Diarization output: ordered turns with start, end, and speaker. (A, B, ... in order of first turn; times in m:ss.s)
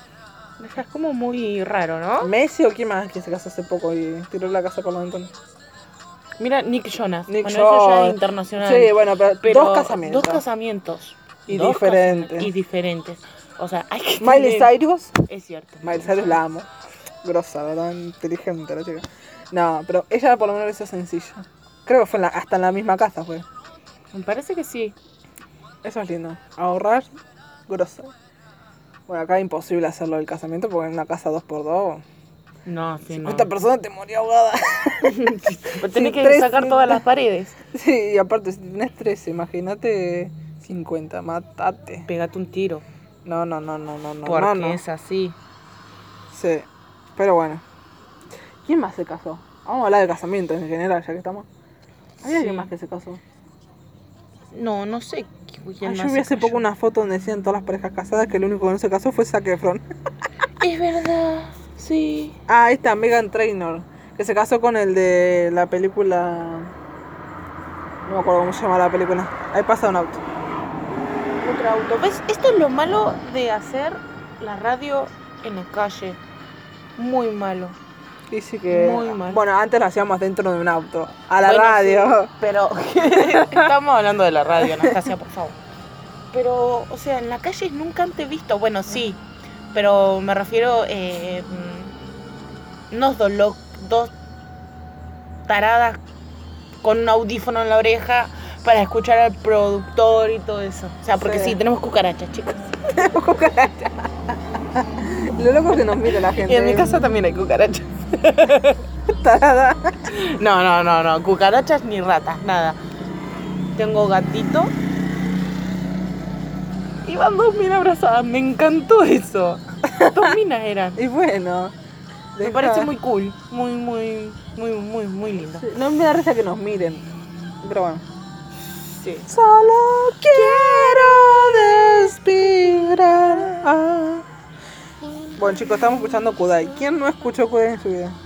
0:00.6-0:02.3 A
0:02.2-0:05.3 B
0:06.4-0:16.4 A
0:07.3-0:10.4 B
0:11.5-0:12.5 B
0:14.2-0:15.1 B
0:15.8-0:16.7 B
0:17.2-0:23.4 B
0:24.1-0:25.0 A
0:25.8-0:27.1 B
0:27.7-0:28.1 B
0:29.1-0:32.0 B
0:32.6-0:33.5 A
0:33.1-0:37.0 B
0:35.0-0:37.6 A
0:37.7-0:42.1 B
0:42.0-0:42.8 A
0:43.2-0:44.8 B
0:44.2-0:45.4 A
0:46.3-0:47.6 B
0:48.6-0:51.5 B
0:52.2-0:52.7 A
0:52.2-0:53.2 B
0:54.5-0:56.7 A
0:55.8-0:59.8 B
1:00.6-1:02.4 A
1:02.5-1:06.7 B
1:08.0-1:10.2 B
1:11.4-1:16.2 A
1:17.0-1:17.8 A
1:18.3-1:22.3 B
1:18.7-1:19.4 A
1:21.4-1:25.6 A
1:23.0-1:23.7 B
1:24.6-1:25.0 B
1:26.3-1:29.2 A
1:29.7-1:32.0 A
1:32.9-1:34.1 A
1:35.5-1:36.0 A
1:36.8-1:42.8 A
1:41.2-1:41.6 B
1:42.9-1:47.1 B
1:46.1-1:48.8 A
1:49.0-1:50.1 B
1:50.1-1:52.8 A
1:53.8-1:54.7 A
1:57.0-2:01.0 A
1:59.9-2:00.4 B
2:01.0-2:01.7 B
2:02.3-2:02.9 B
2:02.4-2:05.7 A
2:05.4-2:07.1 B
2:07.6-2:08.0 B
2:08.8-2:09.3 A
2:09.3-2:14.2 B
2:10.3-2:13.6 A
2:15.4-2:18.2 B